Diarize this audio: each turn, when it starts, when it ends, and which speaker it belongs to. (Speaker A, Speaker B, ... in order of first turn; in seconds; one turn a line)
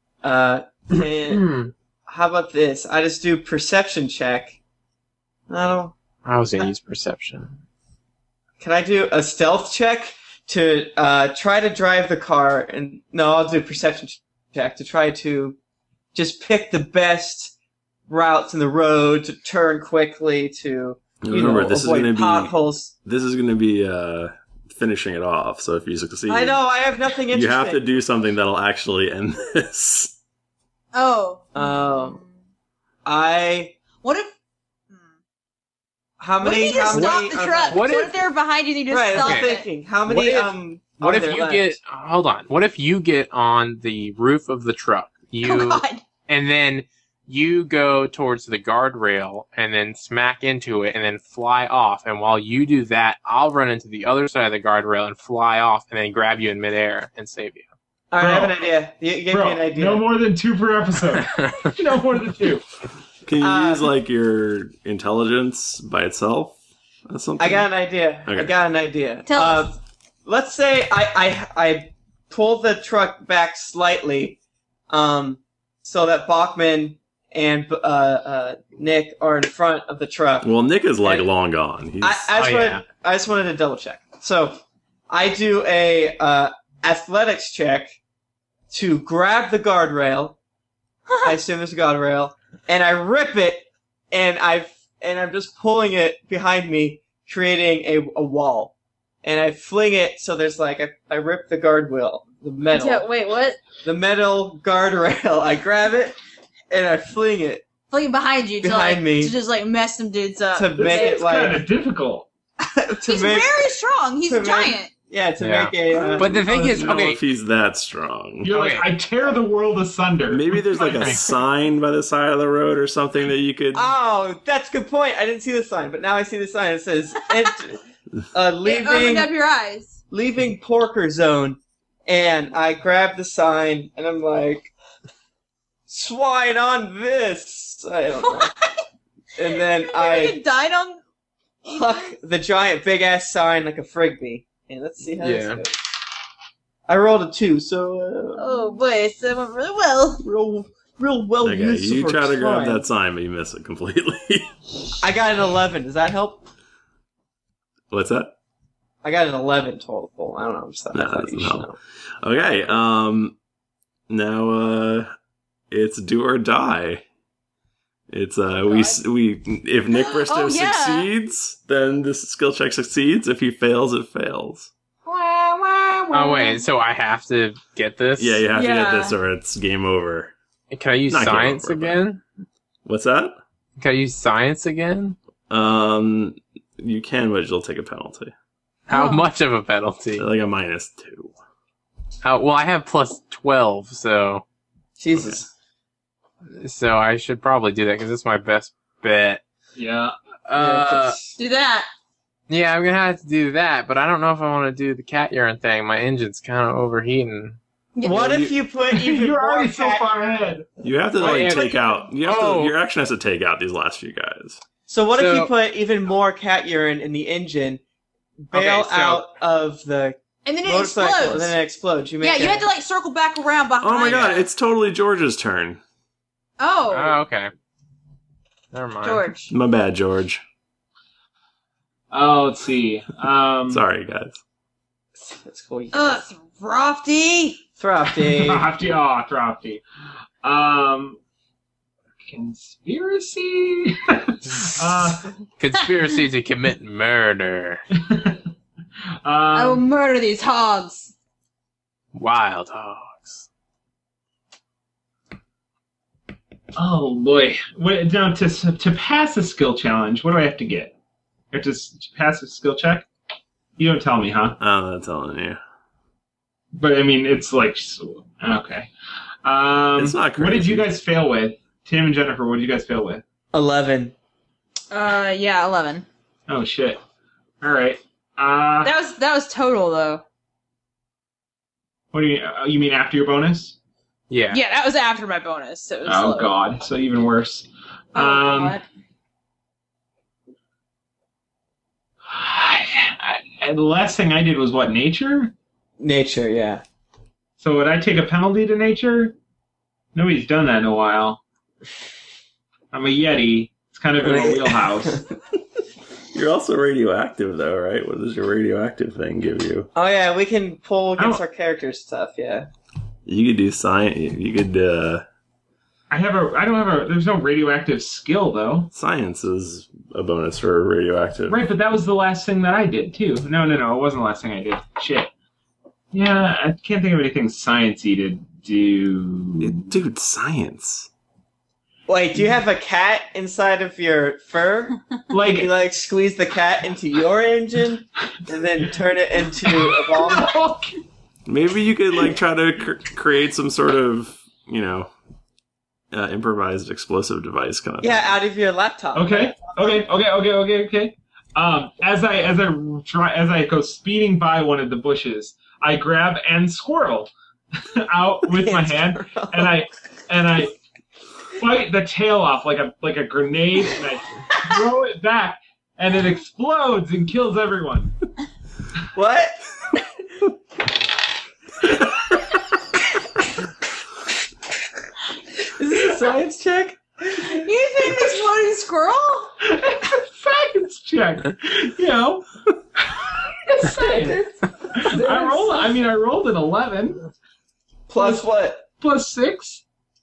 Speaker A: 0.2-1.5
Speaker B: 0.9-1.7
Speaker A: 2.1-4.6
Speaker A: 5.5-5.9
Speaker B: 6.2-7.6
Speaker A: 8.6-15.6
Speaker A: 16.1-17.5
Speaker A: 18.1-22.9
Speaker C: 21.2-26.6
Speaker A: 26.3-27.8
Speaker C: 27.3-30.1
Speaker D: 30.9-32.3
Speaker A: 31.6-32.2
Speaker A: 33.0-33.8
Speaker D: 34.0-34.3
Speaker A: 36.2-38.1
Speaker D: 36.4-40.5
Speaker B: 36.9-38.2
Speaker A: 38.9-41.7
Speaker B: 39.1-39.5
Speaker B: 40.1-40.4
Speaker B: 41.0-57.6
Speaker D: 45.4-46.0
Speaker A: 58.1-60.1
Speaker E: 58.2-58.6
Speaker E: 59.3-62.6
Speaker C: 63.2-66.6
Speaker A: 63.4-63.9
Speaker C: 67.1-67.7
Speaker A: 67.4-74.4
Speaker C: 68.3-68.5
Speaker D: 69.3-69.7
Speaker A: 74.9-80.5
Speaker C: 80.4-82.3
Speaker A: 81.0-81.3
Speaker A: 82.0-88.0
Speaker B: 82.4-82.8
Speaker A: 88.7-90.4
Speaker D: 91.1-91.3
Speaker A: 91.2-103.0
Speaker D: 102.7-103.6
Speaker A: 103.8-106.2
Speaker A: 106.7-107.7
Speaker D: 107.9-111.2
Speaker A: 108.6-109.3
Speaker A: 110.5-111.7
Speaker E: 110.8-112.3
Speaker A: 112.7-113.6
Speaker D: 113.0-114.9
Speaker A: 114.2-117.1
Speaker B: 115.4-117.2
Speaker C: 115.9-118.5
Speaker E: 118.4-121.0
Speaker B: 118.5-118.8
Speaker C: 120.3-123.9
Speaker B: 120.9-121.3
Speaker A: 123.7-127.8
Speaker A: 128.3-129.3
Speaker D: 128.6-130.0
Speaker A: 130.1-134.7
Speaker A: 135.9-138.5
Speaker D: 138.2-138.7
Speaker A: 139.4-140.4
Speaker D: 139.5-141.0
Speaker A: 141.6-145.8
Speaker B: 145.2-145.6
Speaker A: 146.9-148.4
Speaker D: 148.4-150.2
Speaker A: 150.2-152.8
Speaker C: 151.4-154.5
Speaker A: 155.0-156.5
Speaker C: 157.9-158.3
Speaker A: 159.0-161.8
Speaker C: 160.9-161.7
Speaker C: 162.2-163.4
Speaker C: 164.1-165.1
Speaker C: 165.7-167.0
Speaker C: 168.1-174.7
Speaker D: 168.6-169.0
Speaker D: 169.9-171.1
Speaker D: 175.1-176.6
Speaker B: 176.1-178.4
Speaker C: 178.2-180.3
Speaker D: 178.5-179.2
Speaker B: 180.7-182.2
Speaker C: 181.1-182.0
Speaker C: 182.8-183.4
Speaker B: 183.8-185.2
Speaker C: 185.5-188.3
Speaker B: 188.9-190.3
Speaker D: 188.9-189.2
Speaker C: 190.2-191.3
Speaker B: 192.2-194.4
Speaker A: 195.0-195.5
Speaker B: 196.6-199.4
Speaker E: 199.8-200.1
Speaker B: 200.5-201.2
Speaker A: 200.5-201.3
Speaker D: 201.4-201.9
Speaker B: 202.5-207.6
Speaker D: 207.9-208.2
Speaker A: 208.0-210.4
Speaker B: 208.1-208.5
Speaker E: 208.9-210.7
Speaker C: 210.8-214.6
Speaker B: 211.2-212.7
Speaker E: 211.2-211.6
Speaker A: 214.9-217.8
Speaker B: 215.1-215.5
Speaker A: 218.4-222.7
Speaker B: 218.5-219.2
Speaker D: 220.4-221.6
Speaker D: 222.2-224.5
Speaker C: 223.8-225.8
Speaker D: 226.6-227.2
Speaker B: 226.9-227.5
Speaker B: 228.7-229.3
Speaker D: 229.0-229.5
Speaker C: 229.5-230.4
Speaker E: 232.1-233.8
Speaker C: 233.7-234.4
Speaker A: 235.2-236.2
Speaker D: 235.9-237.6
Speaker A: 237.8-238.7
Speaker E: 238.2-239.8
Speaker E: 240.4-241.2
Speaker E: 242.2-245.3
Speaker B: 244.5-244.8
Speaker B: 245.6-247.8
Speaker E: 247.9-248.4
Speaker E: 249.2-249.8
Speaker D: 249.5-251.1
Speaker B: 252.1-253.4
Speaker E: 256.7-260.9
Speaker E: 261.5-263.1
Speaker E: 263.8-264.6
Speaker C: 264.6-265.6
Speaker E: 266.7-268.9
Speaker E: 269.4-273.2
Speaker C: 270.0-270.9
Speaker A: 273.5-274.1
Speaker D: 274.9-276.1
Speaker E: 276.5-277.0
Speaker E: 277.6-278.9
Speaker D: 278.8-280.2
Speaker E: 282.1-283.8
Speaker B: 284.3-284.6
Speaker D: 284.5-286.5
Speaker E: 286.1-288.8
Speaker D: 288.1-288.8
Speaker E: 292.3-295.5
Speaker A: 296.0-296.8
Speaker E: 297.6-299.3
Speaker E: 300.1-301.4
Speaker E: 302.9-305.2
Speaker A: 304.2-305.2
Speaker C: 306.3-309.9
Speaker A: 309.9-312.7
Speaker E: 311.2-311.4
Speaker C: 313.3-315.2
Speaker E: 316.1-318.9
Speaker C: 318.9-321.6
Speaker E: 321.5-325.3
Speaker E: 326.1-329.9
Speaker C: 329.6-331.1
Speaker A: 332.1-340.5
Speaker E: 335.3-335.7
Speaker E: 339.6-341.0
Speaker C: 341.5-345.1
Speaker C: 346.1-348.3
Speaker A: 348.0-350.0
Speaker E: 349.1-357.3
Speaker E: 357.9-360.7
Speaker A: 358.5-359.8
Speaker E: 361.6-368.1
Speaker A: 369.1-369.6
Speaker A: 375.7-377.6
Speaker D: 377.4-379.5
Speaker E: 379.6-387.3
Speaker A: 383.9-385.8
Speaker A: 388.1-388.8
Speaker E: 388.2-389.8